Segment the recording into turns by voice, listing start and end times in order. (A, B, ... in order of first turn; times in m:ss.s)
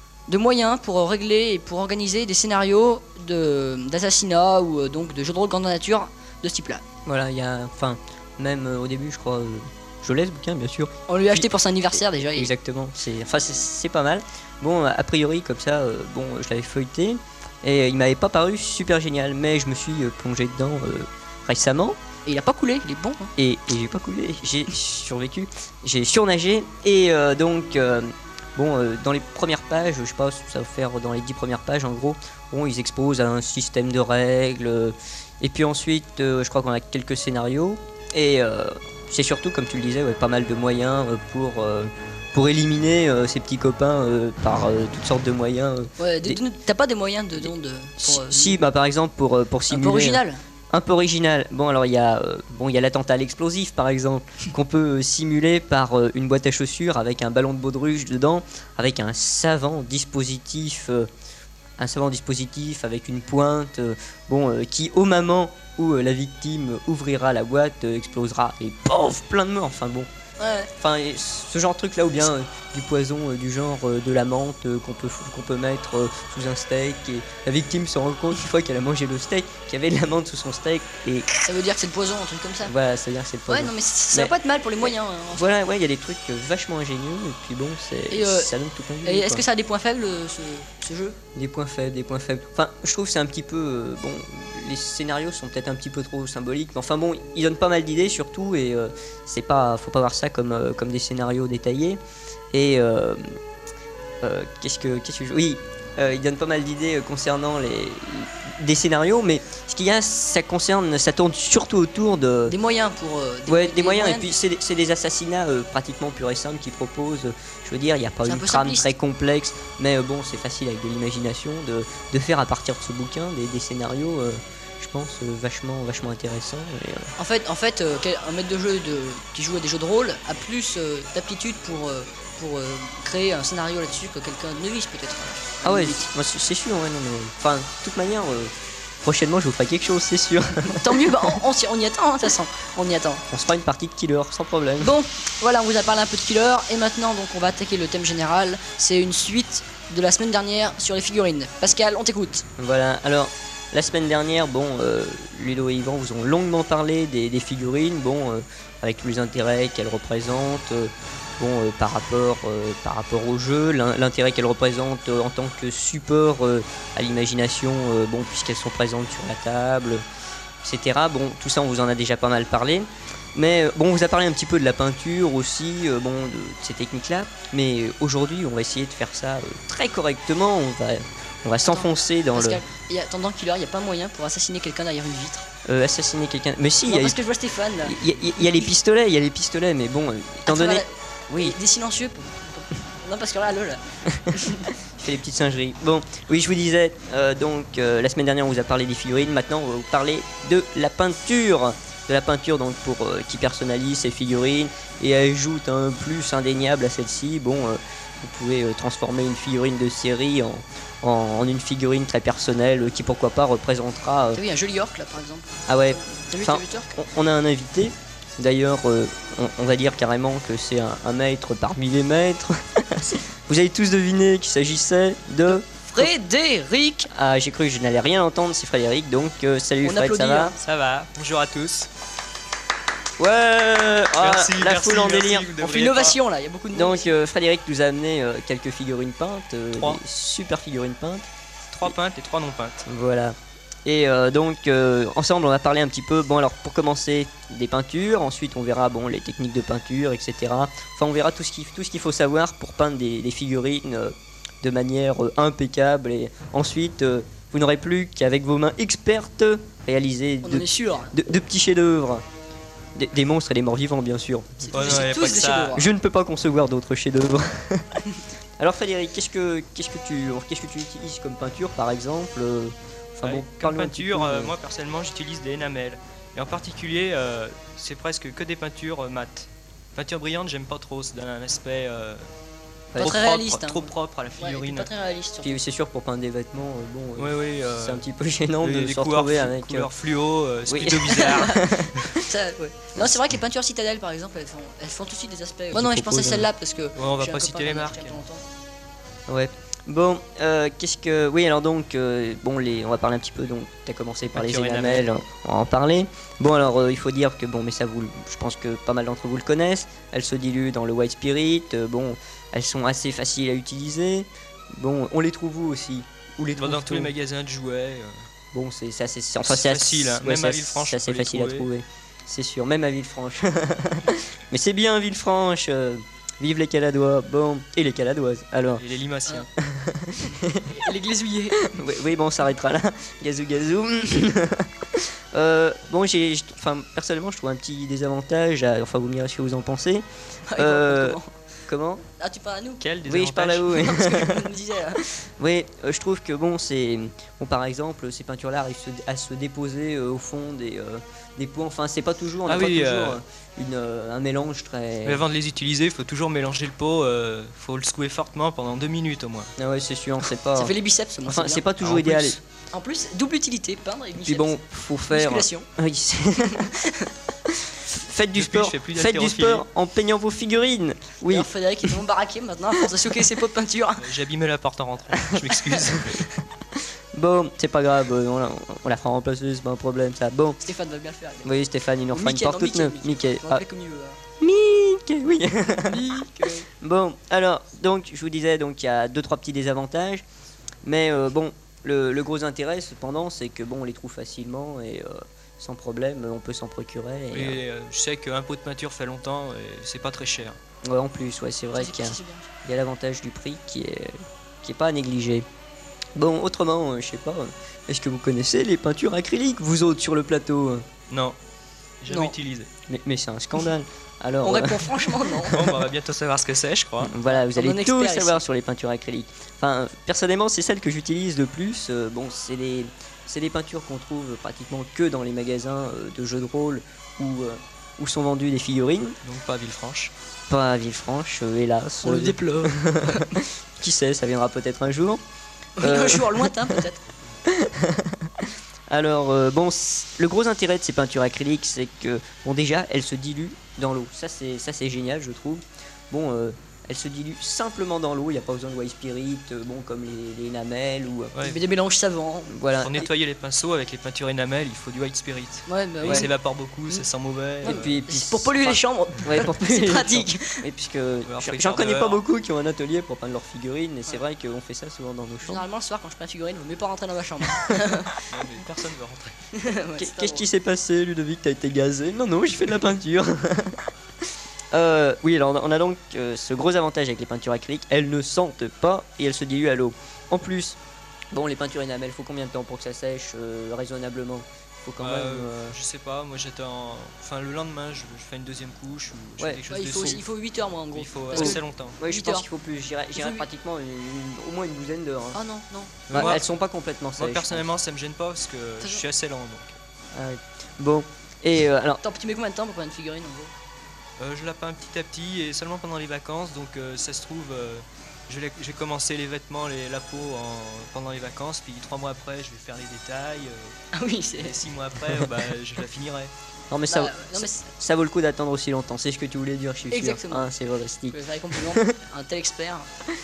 0:00.3-0:06.8 A
0:07.0-0:22.0 B
0:11.1-0:12.5 A
0:22.2-0:23.3 A
0:23.4-0:46.4 B
0:46.0-0:48.6 A
0:48.0-1:01.1 B
0:49.7-0:50.4 A
1:01.8-1:10.1 B
1:10.4-1:10.7 A
1:10.8-1:21.3 B
1:21.4-1:22.7 A
1:22.6-1:29.4 B
1:23.5-1:25.5 A
1:28.1-1:28.5 A
1:29.0-1:31.2 A
1:31.3-1:42.0 B
1:42.5-1:43.4 B
1:44.2-1:52.6 B
1:52.5-1:54.3 A
1:53.5-2:07.1 B
1:58.2-1:58.9 A
2:07.2-2:16.0 A
2:15.6-2:21.3 B
2:20.6-2:23.2 A
2:23.3-2:24.9 B
2:24.8-2:32.4 A
2:32.6-2:50.0 B
2:50.6-3:02.6 B
3:01.7-3:05.5 A
3:05.6-3:07.2 B
3:06.9-3:08.0 A
3:07.8-3:11.6 B
3:10.5-3:14.7 A
3:14.3-3:34.4 B
3:34.3-3:36.9 A
3:35.7-3:46.1 B
3:45.5-3:47.1 A
3:47.1-3:50.5 B
3:49.8-3:50.6 A
3:50.6-3:51.9 C
3:53.2-3:55.5 B
3:54.2-3:56.2 C
3:55.6-3:57.1 A
3:56.7-4:01.2 B
3:59.7-4:00.0 C
4:01.7-4:02.8 C
4:02.8-4:22.2 B
4:20.4-4:21.1 A
4:22.9-4:28.0 B
4:24.6-4:25.9 A
4:24.7-4:25.8 C
4:28.6-4:34.5 B
4:33.2-4:42.2 C
4:42.9-4:44.9 C
4:43.0-4:45.6 A
4:45.4-4:49.9 B
4:47.2-4:48.0 C
4:48.6-4:52.0 C
4:50.7-4:52.2 B
4:51.2-4:51.6 A
4:52.2-4:58.4 A
4:55.7-4:56.5 B
4:57.0-4:58.2 C
4:59.3-5:17.1 B
5:04.3-5:05.1 C
5:16.6-5:18.2 C
5:18.5-5:28.8 B
5:19.4-5:21.7 C
5:28.8-5:29.5 C
5:29.6-5:30.8 B
5:30.7-5:31.6 A
5:31.6-5:42.0 B
5:40.5-5:41.3 A
5:42.2-5:42.8 A
5:42.8-5:43.9 C
5:43.0-5:44.5 B
5:43.7-5:45.0 A
5:45.0-5:55.2 B
5:52.4-5:53.2 C
5:55.0-5:59.5 C
5:59.6-6:00.7 B
6:00.5-6:01.6 A
6:01.2-6:02.4 B
6:01.8-6:02.4 C
6:02.7-6:05.7 A
6:04.2-6:06.7 B
6:06.5-6:07.1 A
6:07.5-6:11.5 B
6:08.3-6:09.6 C
6:11.2-6:14.0 A
6:14.0-6:16.3 C
6:15.5-6:15.8 A
6:16.8-6:20.6 B
6:20.6-6:21.5 A
6:21.4-6:23.6 B
6:22.1-6:24.2 A
6:24.4-6:30.2 B
6:25.8-6:26.7 A
6:30.8-6:37.6 B
6:37.3-6:40.6 C
6:40.8-6:45.4 B
6:41.7-6:42.5 A
6:46.2-6:50.9 B
6:51.1-6:51.4 C
6:52.0-6:52.7 C
6:52.1-6:52.3 A
6:52.9-6:55.8 B
6:54.4-6:55.6 A
6:55.5-6:57.1 C
6:57.0-7:09.2 B
6:57.2-6:58.4 A
7:09.2-7:10.1 C
7:10.5-7:15.2 B
7:12.0-7:13.4 A
7:15.8-7:17.0 A
7:15.8-7:16.8 B
7:17.4-7:31.3 B
7:31.3-7:31.6 C
7:31.4-7:32.5 A
7:32.5-7:33.1 B
7:32.8-7:38.0 C
7:35.7-7:36.3 A
7:37.6-7:40.6 A
7:37.6-7:45.6 B
7:41.2-7:42.2 C
7:45.4-7:48.3 A
7:48.3-7:49.3 C
7:49.5-7:50.4 A
7:50.0-8:00.8 B
8:01.3-8:05.8 B
8:05.0-8:10.2 C
8:09.4-8:10.2 B
8:09.7-8:12.4 A
8:10.9-8:12.0 C
8:11.3-8:15.4 B
8:13.1-8:13.4 A
8:15.3-8:16.4 A
8:16.1-8:16.4 C
8:16.1-8:17.7 B
8:17.2-8:19.8 C
8:20.1-8:22.0 B
8:22.0-8:23.5 A
8:24.2-8:33.8 C
8:33.9-8:34.6 A
8:34.4-8:36.3 C
8:36.7-8:41.9 B
8:36.9-8:37.6 A
8:39.9-8:40.5 A
8:41.1-8:42.9 A